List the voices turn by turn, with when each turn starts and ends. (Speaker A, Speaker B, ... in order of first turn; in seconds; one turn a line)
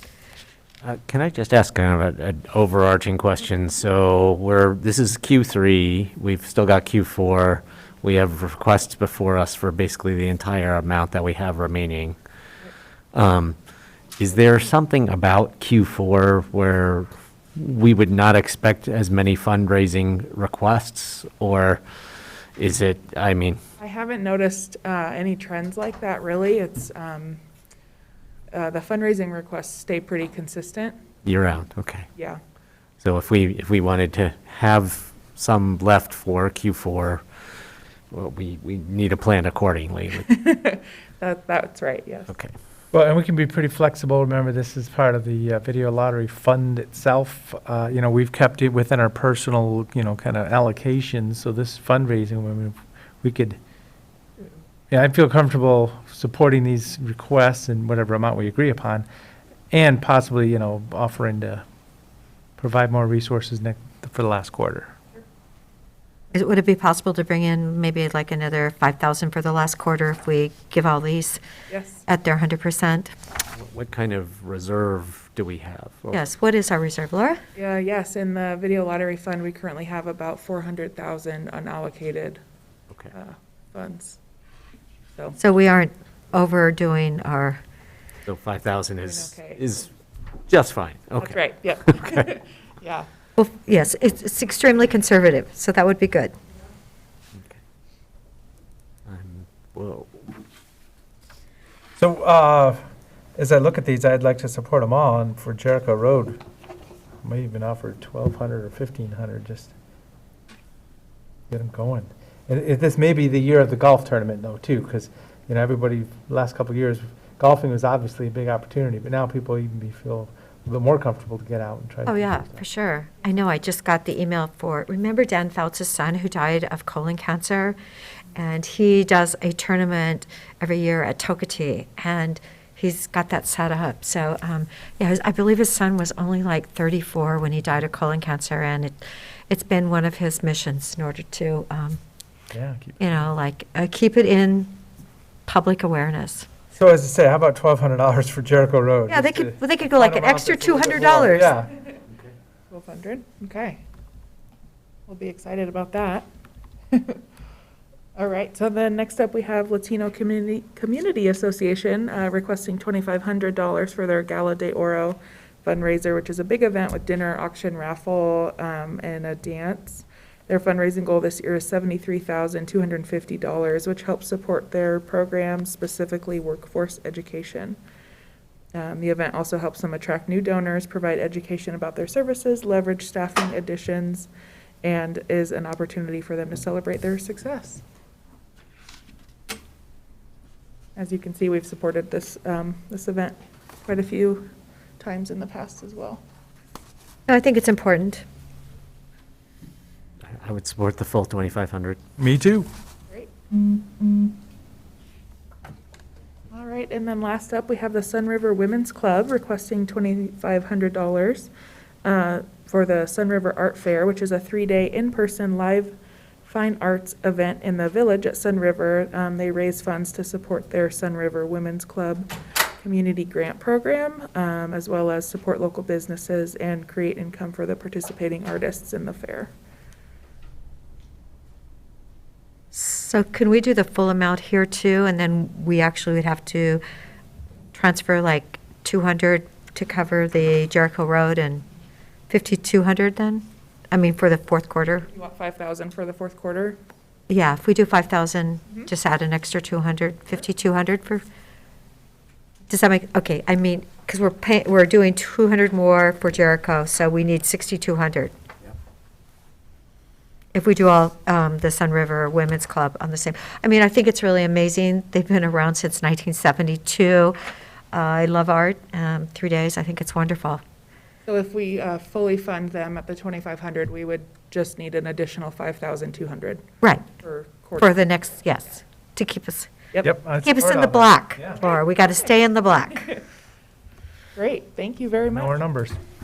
Speaker A: 0.8-12.2
Speaker A: 13.1-13.6
Speaker A: 14.2-21.8
Speaker A: 22.6-23.6
Speaker B: 23.8-27.4
Speaker B: 28.5-31.0
Speaker A: 31.2-32.1
Speaker A: 33.0-37.2
Speaker A: 38.1-40.3
Speaker B: 40.3-42.3
Speaker C: 42.9-53.6
Speaker C: 54.9-59.0
Speaker C: 59.7-61.6
Speaker C: 62.6-64.9
Speaker D: 66.3-71.4
Speaker B: 71.7-72.0
Speaker D: 72.0-73.1
Speaker A: 73.5-76.2
Speaker D: 76.1-77.4
Speaker B: 77.5-82.4
Speaker B: 83.1-84.2
Speaker D: 85.4-87.6
Speaker A: 88.2-89.9
Speaker B: 89.0-89.6
Speaker A: 90.5-91.4
Speaker B: 91.2-93.1
Speaker D: 93.4-96.3
Speaker A: 97.3-97.6
Speaker A: 99.0-100.2
Speaker C: 102.0-102.8
Speaker C: 103.3-106.4
Speaker C: 107.2-109.7
Speaker C: 111.5-122.5
Speaker D: 122.0-127.8
Speaker D: 128.3-142.0
Speaker C: 142.5-143.2
Speaker D: 143.0-144.8
Speaker D: 145.4-146.5
Speaker C: 146.7-151.8
Speaker D: 149.1-151.5
Speaker B: 152.7-153.8
Speaker B: 155.1-156.3
Speaker B: 156.9-157.2
Speaker B: 158.2-177.8
Speaker B: 178.7-184.3
Speaker B: 184.8-187.8
Speaker B: 190.9-196.2
Speaker D: 197.3-198.2
Speaker A: 200.3-202.0
Speaker C: 202.2-202.7
Speaker B: 203.1-204.3
Speaker B: 206.5-211.5
Speaker B: 212.0-222.3
Speaker B: 222.8-229.5
Speaker D: 232.7-236.8
Speaker D: 237.7-241.6
Speaker D: 242.3-245.1
Speaker B: 245.1-246.8
Speaker D: 247.3-251.2
Speaker D: 252.7-258.3
Speaker D: 260.5-267.4
Speaker D: 267.9-270.6
Speaker B: 271.2-276.6
Speaker B: 277.2-278.0
Speaker D: 277.8-279.7
Speaker C: 280.0-281.6
Speaker D: 280.4-283.1
Speaker B: 284.4-285.6
Speaker C: 285.2-286.0